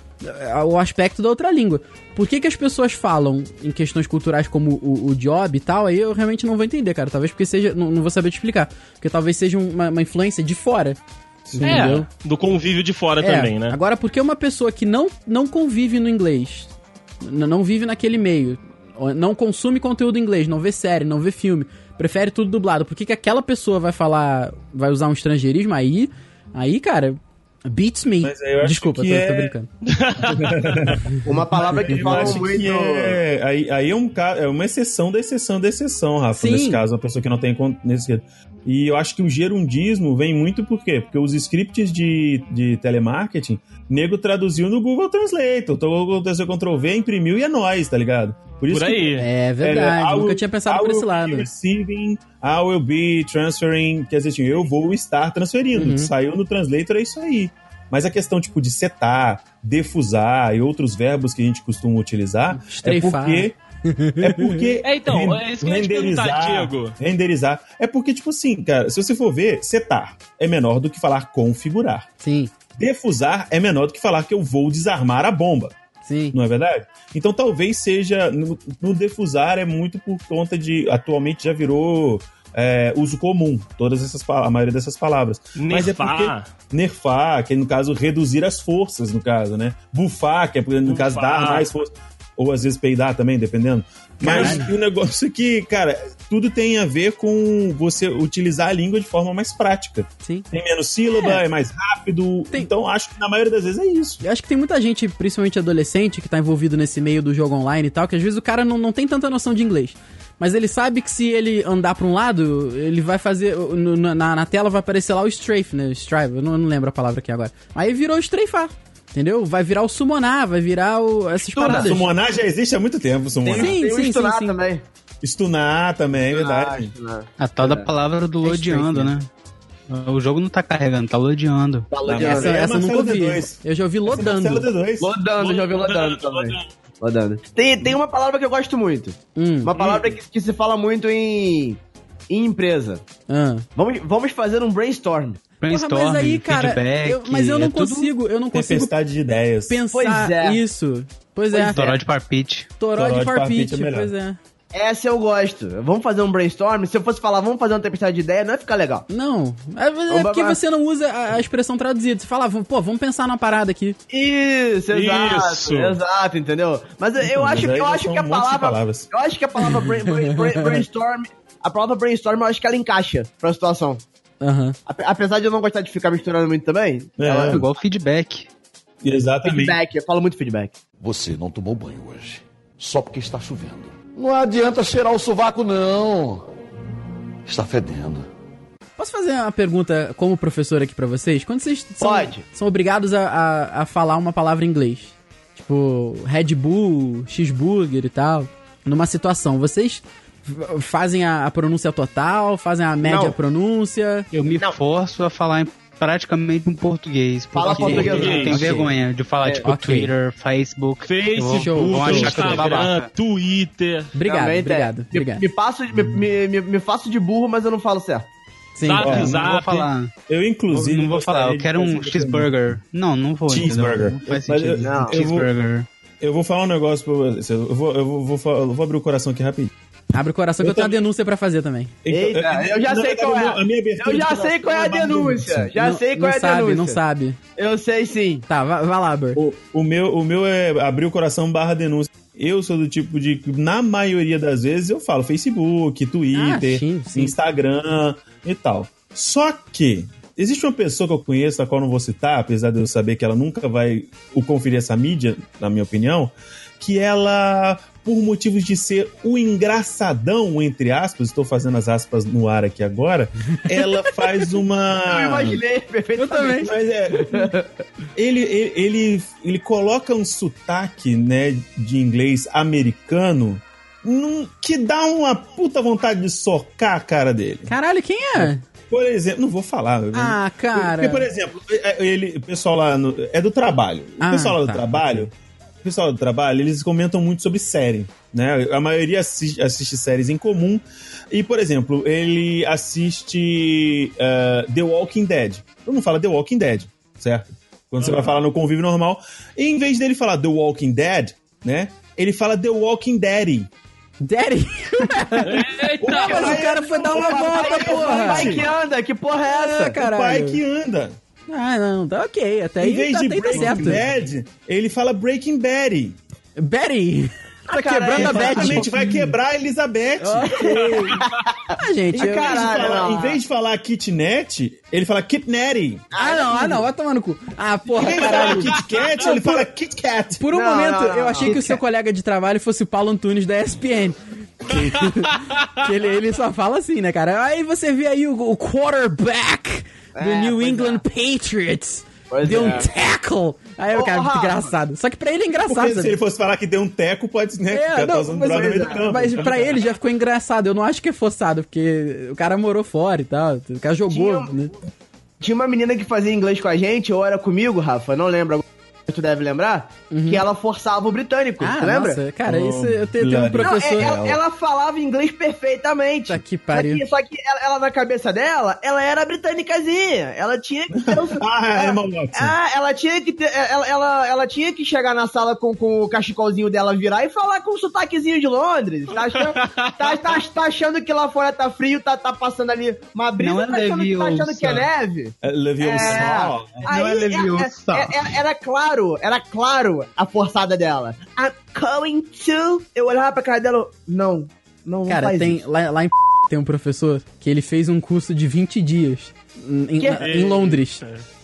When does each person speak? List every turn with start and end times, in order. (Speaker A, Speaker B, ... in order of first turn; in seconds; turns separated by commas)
Speaker A: 0.2-11.0, Speaker A: 11.5-12.1, Speaker B: 11.5-11.9, Speaker C: 11.6-13.8, Speaker A: 13.2-16.7, Speaker A: 17.2-29.7, Speaker B: 28.2-29.5, Speaker C: 29.9-31.0, Speaker B: 30.3-31.0, Speaker D: 31.2-33.2, Speaker B: 31.7-63.6, Speaker A: 36.4-36.8, Speaker C: 48.7-49.3, Speaker A: 49.2-51.5, Speaker A: 55.8-56.1, Speaker A: 62.6-64.7, Speaker B: 64.2-72.1, Speaker C: 64.8-66.9, Speaker A: 72.2-72.5, Speaker B: 72.8-75.7, Speaker A: 76.0-76.4, Speaker B: 76.3-104.2, Speaker C: 85.6-86.5, Speaker C: 90.9-91.7, Speaker A: 94.2-94.7, Speaker A: 101.1-101.4, Speaker A: 104.2-122.1, Speaker B: 121.6-123.8, Speaker E: 121.6-121.9, Speaker A: 123.5-124.6, Speaker D: 123.5-124.8, Speaker B: 125.2-126.9, Speaker D: 126.3-127.9, Speaker E: 127.4-129.3, Speaker A: 128.4-129.2, Speaker E: 129.9-131.9, Speaker D: 131.9-132.6, Speaker B: 132.1-135.1, Speaker A: 132.2-134.7, Speaker D: 135.0-141.8, Speaker C: 135.4-136.7, Speaker A: 139.4-139.7, Speaker C: 139.8-140.1, Speaker D: 142.3-143.0, Speaker A: 143.3-143.7, Speaker D: 143.8-145.4, Speaker E: 145.6-148.1, Speaker A: 145.7-148.9, Speaker B: 148.5-149.8, Speaker A: 149.7-152.0, Speaker D: 149.9-150.6, Speaker D: 151.5-152.0, Speaker E: 151.6-152.7, Speaker A: 152.8-154.4, Speaker B: 152.9-154.1, Speaker D: 154.7-159.1, Speaker A: 159.1-164.0, Speaker D: 160.1-160.6, Speaker D: 164.1-174.0, Speaker C: 164.9-166.0, Speaker B: 167.2-169.1, Speaker A: 170.1-170.8, Speaker A: 174.4-174.8, Speaker D: 174.9-177.6, Speaker B: 177.2-177.7, Speaker E: 177.4-178.5, Speaker B: 179.0-179.8, Speaker D: 179.4-180.8, Speaker F: 181.0-186.4, Speaker F: 187.5-188.3, Speaker A: 189.0-204.3, Speaker D: 192.0-192.4, Speaker D: 203.0-203.4, Speaker E: 204.3-213.1, Speaker D: 207.5-208.9, Speaker A: 207.8-208.9, Speaker C: 208.0-208.7, Speaker A: 209.6-210.1, Speaker C: 211.1-214.1, Speaker A: 211.5-212.4, Speaker D: 212.4-212.9, Speaker A: 214.2-215.5, Speaker D: 214.2-218.3, Speaker A: 218.8-219.2, Speaker C: 218.8-219.9, Speaker B: 219.0-219.6, Speaker E: 219.1-220.1, Speaker B: 220.3-222.7, Speaker E: 220.7-225.9, Speaker B: 223.5-225.5, Speaker D: 224.8-225.1, Speaker B: 226.2-229.7, Speaker A: 230.1-231.9, Speaker B: 230.6-230.9, Speaker B: 232.1-235.7, Speaker D: 232.1-237.0, Speaker A: 235.8-237.4, Speaker D: 237.6-238.4, Speaker A: 238.5-239.4, Speaker B: 239.3-265.6, Speaker A: 246.3-247.3, Speaker A: 264.1-264.5, Speaker D: 265.1-267.7, Speaker A: 266.2-266.7, Speaker B: 266.6-267.5, Speaker B: 268.1-277.7, Speaker A: 277.7-278.6, Speaker B: 278.4-285.3, Speaker A: 280.1-281.3, Speaker A: 284.2-284.9, Speaker B: 285.8-303.7, Speaker A: 304.2-308.6, Speaker C: 305.4-306.6, Speaker B: 306.0-308.7, Speaker D: 306.2-310.0, Speaker A: 309.5-310.6, Speaker B: 310.0-311.2, Speaker A: 311.5-314.0, Speaker B: 312.8-316.2, Speaker D: 313.5-313.9, Speaker A: 316.6-318.9, Speaker D: 317.7-319.0, Speaker B: 318.1-321.0, Speaker A: 320.2-321.2, Speaker D: 321.2-323.4, Speaker A: 321.8-322.9, Speaker B: 322.2-326.1, Speaker D: 326.1-326.8, Speaker A: 326.2-329.6, Speaker B: 328.0-330.5, Speaker D: 328.1-328.7, Speaker A: 330.4-346.2, Speaker D: 330.5-331.8, Speaker D: 340.1-341.0, Speaker D: 342.3-342.9, Speaker D: 343.9-344.7, Speaker B: 345.7-349.8, Speaker A: 347.7-354.7, Speaker D: 348.5-349.1, Speaker D: 354.1-354.5, Speaker D: 355.4-362.2, Speaker A: 360.1-360.4, Speaker A: 361.6-364.1, Speaker B: 362.4-364.4, Speaker D: 363.6-395.6, Speaker A: 366.3-367.0, Speaker B: 371.0-372.6, Speaker C: 379.3-380.4, Speaker E: 383.4-384.9, Speaker B: 385.4-386.9, Speaker E: 386.8-388.3, Speaker A: 395.1-401.0, Speaker D: 400.0-400.5, Speaker C: 400.2-401.2